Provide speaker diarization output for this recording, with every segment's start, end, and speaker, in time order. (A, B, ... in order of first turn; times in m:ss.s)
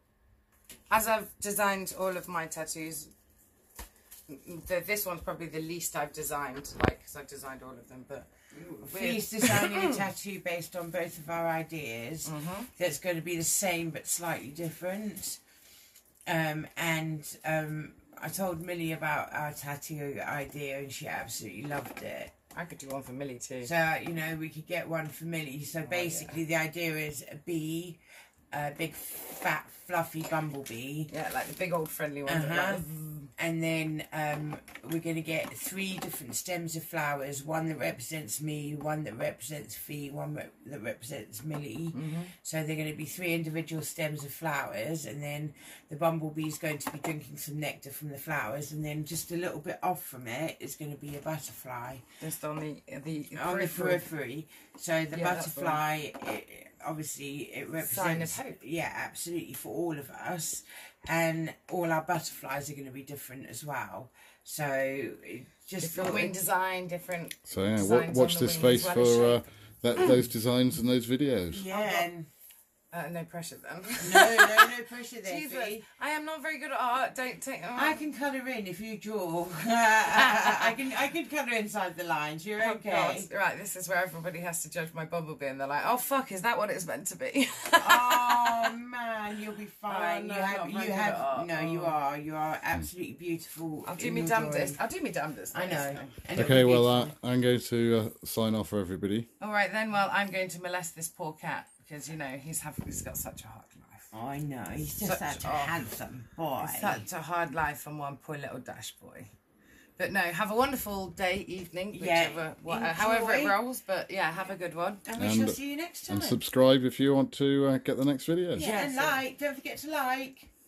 0:00.9-0:03.1 A
0:04.3-0:10.1 A
0:08.5-0:15.4 B
0:12.2-0:12.7 A
0:16.3-0:22.3 B
0:22.5-0:23.7 A
0:23.6-0:28.0 B
0:25.8-0:26.4 A
0:28.5-0:31.1 B
0:31.1-0:33.3 A
0:32.2-0:32.8 B
0:33.4-0:52.0 B
0:41.9-0:42.3 A
0:52.2-0:54.0 A
0:53.3-1:06.4 B
0:55.1-0:55.8 A
0:57.8-0:58.6 A
1:05.8-1:09.4 A
1:07.4-1:11.6 C
1:11.5-1:12.3 B
1:11.7-1:12.1 A
1:12.9-1:14.6 A
1:14.0-1:15.8 B
1:15.2-1:18.1 A
1:17.7-1:23.3 B
1:20.1-1:20.8 A
1:22.6-1:28.7 A
1:27.8-1:34.8 B
1:29.9-1:32.0 A
1:33.8-1:36.2 A
1:35.5-1:37.1 B
1:36.3-1:39.3 C
1:39.4-1:44.1 A
1:44.1-1:47.0 B
1:45.0-1:45.8 A
1:46.6-1:49.3 A
1:50.0-1:55.0 A
1:51.9-1:53.6 B
1:55.0-1:56.4 B
1:55.2-1:58.7 C
1:58.5-2:00.5 B
1:58.6-1:59.2 A